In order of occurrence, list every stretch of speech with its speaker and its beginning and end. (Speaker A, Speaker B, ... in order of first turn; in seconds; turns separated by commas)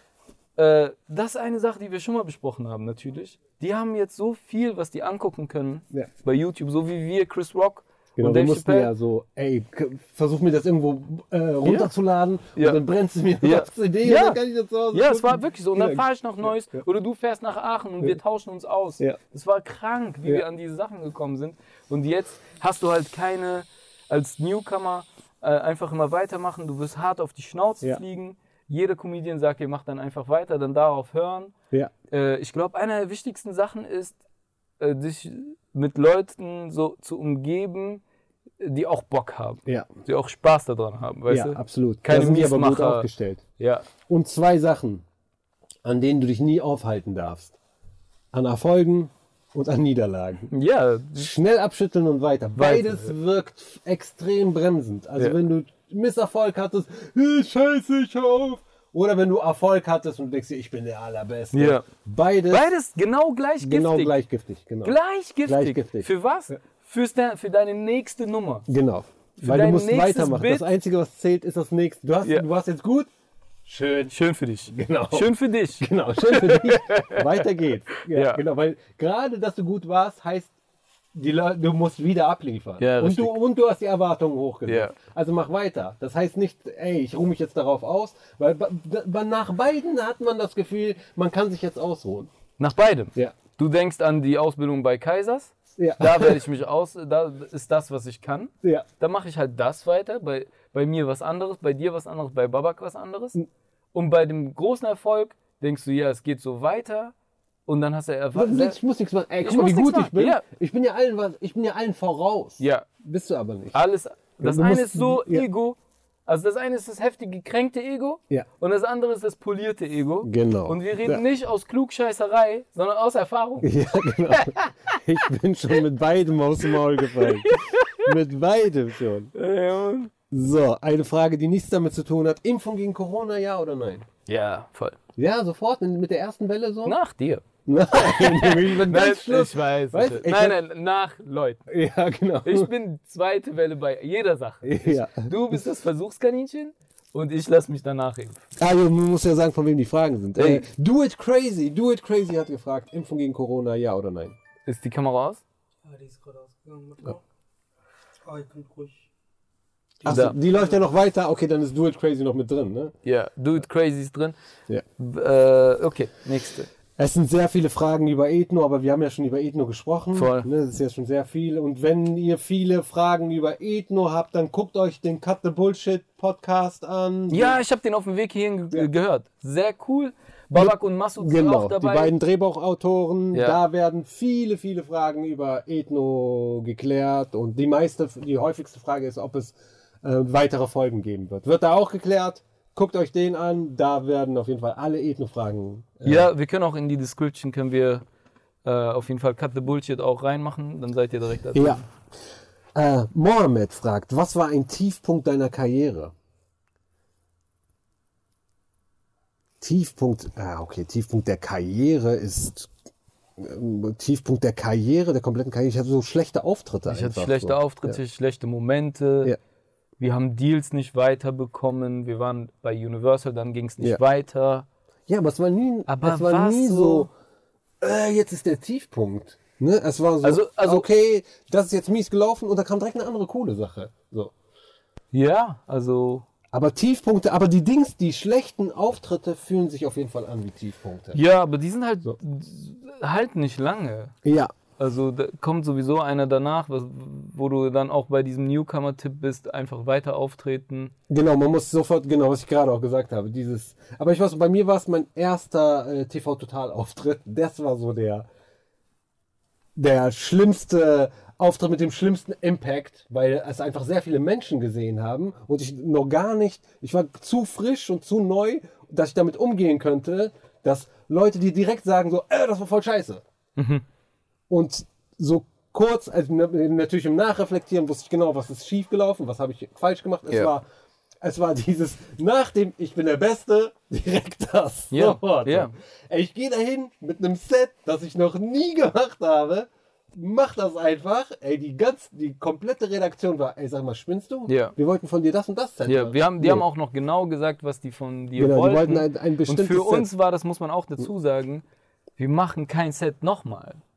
Speaker A: 0.6-8.9, Speaker B: 8.2-16.8, Speaker A: 11.6-11.9, Speaker A: 13.4-14.4, Speaker A: 14.9-31.5, Speaker A: 32.1-34.2, Speaker A: 34.8-38.0, Speaker A: 38.6-43.9, Speaker B: 41.3-43.4, Speaker B: 44.1-45.0, Speaker B: 45.8-47.5, Speaker B: 48.3-50.5, Speaker A: 50.5-51.3, Speaker B: 51.1-62.7, Speaker A: 52.5-53.1, Speaker A: 61.5-61.9, Speaker A: 62.5-64.2, Speaker B: 63.6-66.1, Speaker A: 64.8-68.7, Speaker B: 68.7-73.1, Speaker A: 69.4-70.7, Speaker B: 73.6-74.1, Speaker A: 74.1-78.4, Speaker B: 74.7-80.5, Speaker B: 81.1-92.3, Speaker A: 82.8-83.3, Speaker A: 84.7-84.9, Speaker A: 92.6-103.4, Speaker B: 95.8-96.4, Speaker A: 103.9-107.1, Speaker A: 107.7-108.8, Speaker B: 108.3-113.8, Speaker A: 109.4-110.4, Speaker A: 112.6-112.9, Speaker A: 113.7-123.7, Speaker B: 114.4-115.5, Speaker B: 120.2-121.2, Speaker B: 123.6-129.3, Speaker A: 124.3-125.0, Speaker A: 127.1-128.1, Speaker A: 129.3-130.1, Speaker B: 130.3-134.1, Speaker A: 134.3-135.0, Speaker B: 135.2-137.0, Speaker A: 136.8-141.6, Speaker B: 137.7-140.6, Speaker B: 141.7-142.7, Speaker A: 142.4-148.4, Speaker B: 144.6-145.6, Speaker B: 148.6-154.3, Speaker A: 150.3-150.6, Speaker A: 154.7-155.4, Speaker C: 155.8-157.2, Speaker C: 158.2-159.1, Speaker B: 160.0-162.9, Speaker A: 160.0-160.3, Speaker C: 160.5-160.8, Speaker A: 163.0-164.3, Speaker A: 165.0-166.7, Speaker B: 167.0-177.6, Speaker A: 170.1-170.5, Speaker A: 177.3-182.1, Speaker B: 180.5-196.3, Speaker A: 183.3-183.6, Speaker A: 196.0-198.0, Speaker A: 198.6-201.8, Speaker B: 201.5-201.8, Speaker B: 202.7-206.1, Speaker B: 209.6-212.7, Speaker B: 213.4-218.0, Speaker A: 216.9-219.3, Speaker A: 220.0-224.7, Speaker B: 225.1-227.1, Speaker A: 225.9-227.1, Speaker B: 227.8-234.3, Speaker A: 230.2-230.8, Speaker A: 235.1-236.2, Speaker B: 236.5-241.2, Speaker A: 241.1-244.1, Speaker B: 244.2-244.5, Speaker A: 244.8-250.9, Speaker B: 251.1-258.2, Speaker B: 259.8-273.2, Speaker A: 273.6-273.8, Speaker B: 274.5-280.6, Speaker B: 281.2-296.6, Speaker A: 284.9-285.7, Speaker A: 294.5-294.7, Speaker A: 295.9-301.6, Speaker B: 298.4-300.1, Speaker A: 302.2-303.8